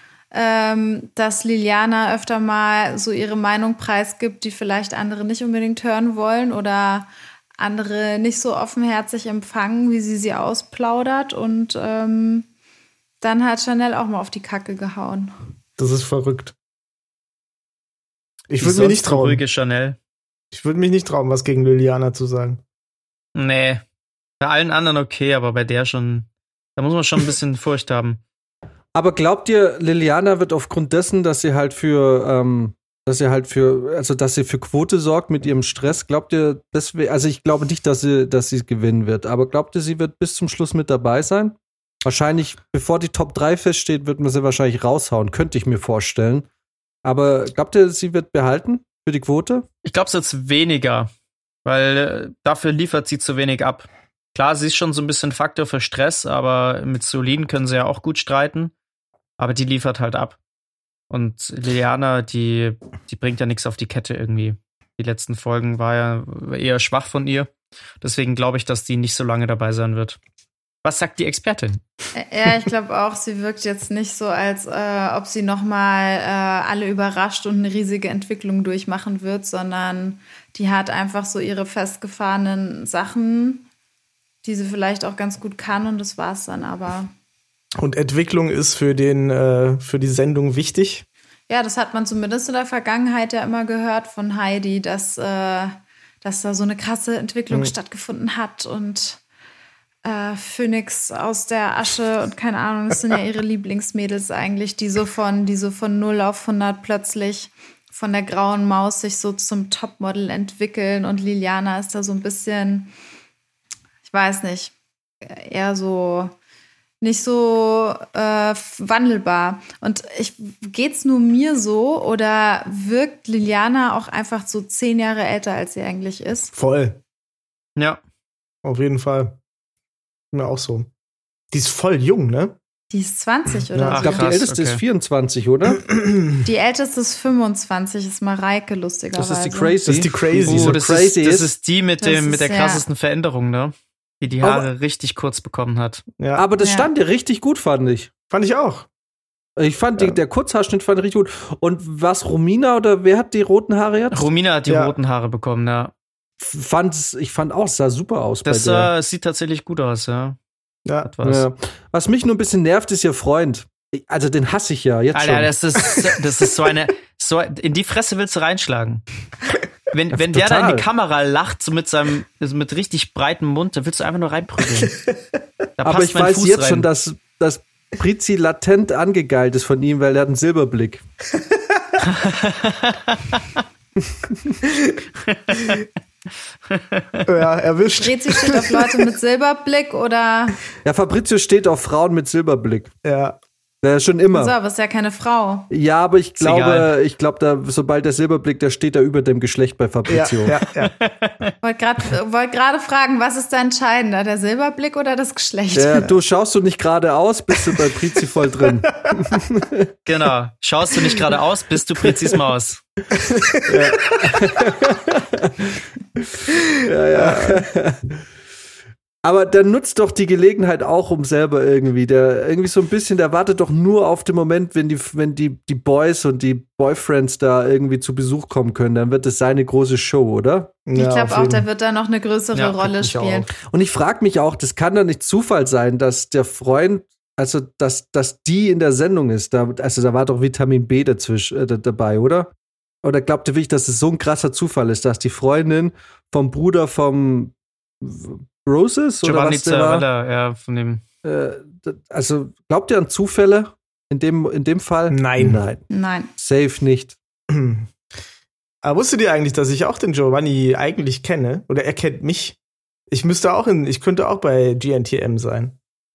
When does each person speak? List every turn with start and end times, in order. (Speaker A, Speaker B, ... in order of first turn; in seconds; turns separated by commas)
Speaker A: 0.3-12.5, Speaker A: 13.2-15.3, Speaker B: 15.8-16.5, Speaker B: 18.5-19.4, Speaker C: 18.6-20.0, Speaker B: 20.5-22.6, Speaker C: 23.4-23.8, Speaker C: 24.4-28.2, Speaker D: 28.9-46.5, Speaker D: 47.0-49.6, Speaker C: 49.9-51.1, Speaker C: 51.6-58.7, Speaker C: 59.4-60.4, Speaker C: 61.1-67.5, Speaker C: 68.0-70.2, Speaker C: 70.8-71.8, Speaker A: 72.1-83.7, Speaker A: 84.4-87.1, Speaker B: 87.8-91.0, Speaker A: 91.5-99.2, Speaker A: 100.0-112.9, Speaker A: 114.0-116.3, Speaker A: 117.0-126.5, Speaker B: 126.5-127.0, Speaker B: 128.6-129.4, Speaker B: 130.3-130.9, Speaker B: 131.5-132.6, Speaker A: 132.9-134.3, Speaker B: 133.7-134.0, Speaker C: 133.9-134.8, Speaker D: 134.0-135.8, Speaker A: 136.4-139.8, Speaker D: 139.2-141.5, Speaker B: 139.8-140.8, Speaker C: 140.5-146.0, Speaker A: 142.0-142.8, Speaker D: 144.4-144.7, Speaker B: 146.2-146.4, Speaker D: 146.3-148.1, Speaker A: 146.6-146.9, Speaker B: 148.3-148.9, Speaker D: 149.6-154.3, Speaker C: 154.1-155.9, Speaker B: 154.7-154.9, Speaker D: 156.4-158.9, Speaker C: 158.5-160.4, Speaker C: 161.0-161.5, Speaker D: 161.2-165.5, Speaker C: 165.1-169.0, Speaker C: 169.9-174.9, Speaker D: 170.2-170.8, Speaker B: 174.7-175.1, Speaker C: 175.8-176.9, Speaker D: 175.8-181.0, Speaker C: 182.0-183.6, Speaker D: 184.1-184.5, Speaker C: 185.3-185.8, Speaker B: 185.5-185.8, Speaker C: 186.7-187.2, Speaker B: 187.2-189.0, Speaker A: 188.0-190.6, Speaker D: 190.8-192.9, Speaker B: 193.0-193.4, Speaker D: 193.8-194.5, Speaker A: 194.3-195.7, Speaker D: 195.7-200.6, Speaker C: 196.4-196.9, Speaker B: 200.1-200.9, Speaker C: 200.8-201.5, Speaker A: 201.6-206.1, Speaker D: 205.7-209.9, Speaker C: 210.1-212.8, Speaker B: 213.1-214.8, Speaker D: 213.7-218.2, Speaker B: 217.1-217.6, Speaker D: 219.2-230.7, Speaker B: 230.9-231.7, Speaker A: 230.9-233.5, Speaker C: 232.5-232.9, Speaker B: 233.0-233.5, Speaker D: 233.7-242.5, Speaker D: 243.0-250.1, Speaker C: 249.2-251.0, Speaker D: 251.2-255.8, Speaker B: 255.1-255.6, Speaker A: 255.9-256.3, Speaker D: 256.4-257.2, Speaker B: 257.5-257.9, Speaker B: 258.8-262.6, Speaker B: 263.1-265.8